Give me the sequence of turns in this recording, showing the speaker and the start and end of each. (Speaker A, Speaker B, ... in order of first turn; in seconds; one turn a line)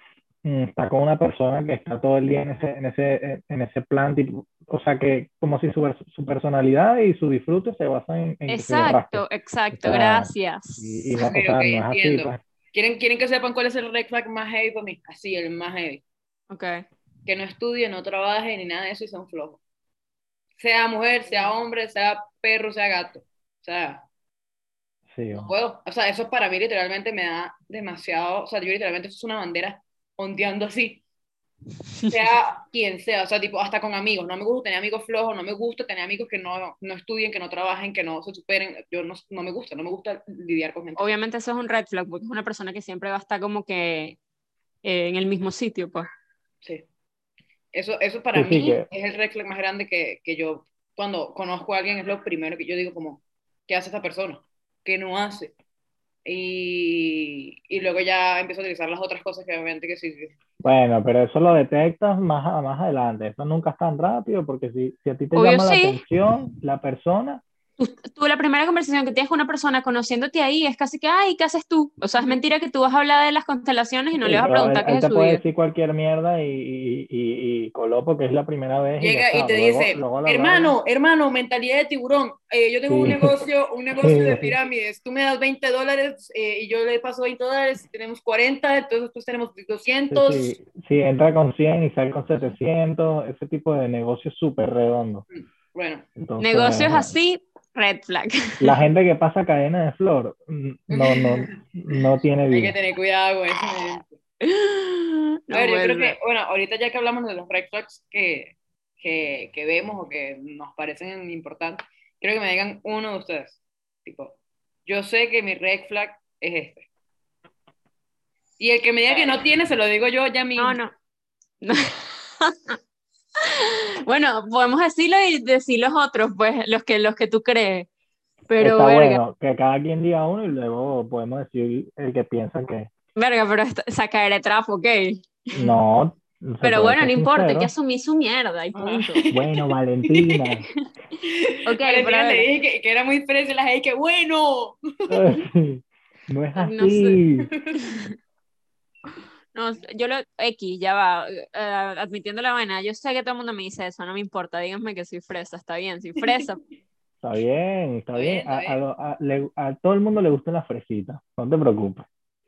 Speaker A: 0.4-9.2
Speaker B: 8.5-11.2
Speaker A: 9.8-12.4
Speaker C: 11.3-16.0
Speaker B: 16.5-16.9
Speaker C: 17.3-19.6
Speaker C: 20.6-24.1
Speaker A: 25.1-25.5
Speaker C: 25.3-31.0
Speaker C: 32.1-41.1
Speaker B: 41.0-44.2
Speaker B: 44.8-46.1
Speaker C: 47.7-55.5
Speaker A: 48.3-48.9
Speaker C: 56.2-60.4
Speaker A: 60.6-67.4
Speaker B: 65.3-66.0
Speaker B: 67.8-75.4
Speaker A: 74.2-80.8
Speaker C: 79.0-90.5
Speaker A: 82.9-83.4
Speaker A: 84.0-84.5
Speaker A: 90.1-95.3
Speaker C: 95.3-96.1
Speaker A: 96.2-97.1
Speaker B: 96.4-98.8
Speaker A: 98.6-102.8
Speaker C: 100.9-101.5
Speaker C: 102.5-104.2
Speaker B: 104.4-106.2
Speaker C: 105.5-116.9
Speaker C: 118.6-120.8
Speaker B: 120.6-120.9
Speaker B: 121.6-122.8
Speaker B: 123.4-127.9
Speaker B: 128.5-129.2
Speaker A: 128.6-132.9
Speaker B: 133.2-135.7
Speaker A: 135.6-137.7
Speaker B: 136.6-139.3
Speaker C: 138.8-140.5
Speaker A: 139.3-140.7
Speaker C: 141.2-145.2
Speaker B: 141.7-142.5
Speaker A: 145.1-147.5
Speaker B: 146.6-147.2
Speaker C: 147.5-147.8
Speaker B: 147.8-148.1
Speaker B: 149.5-156.6
Speaker A: 157.2-162.1
Speaker C: 158.1-158.8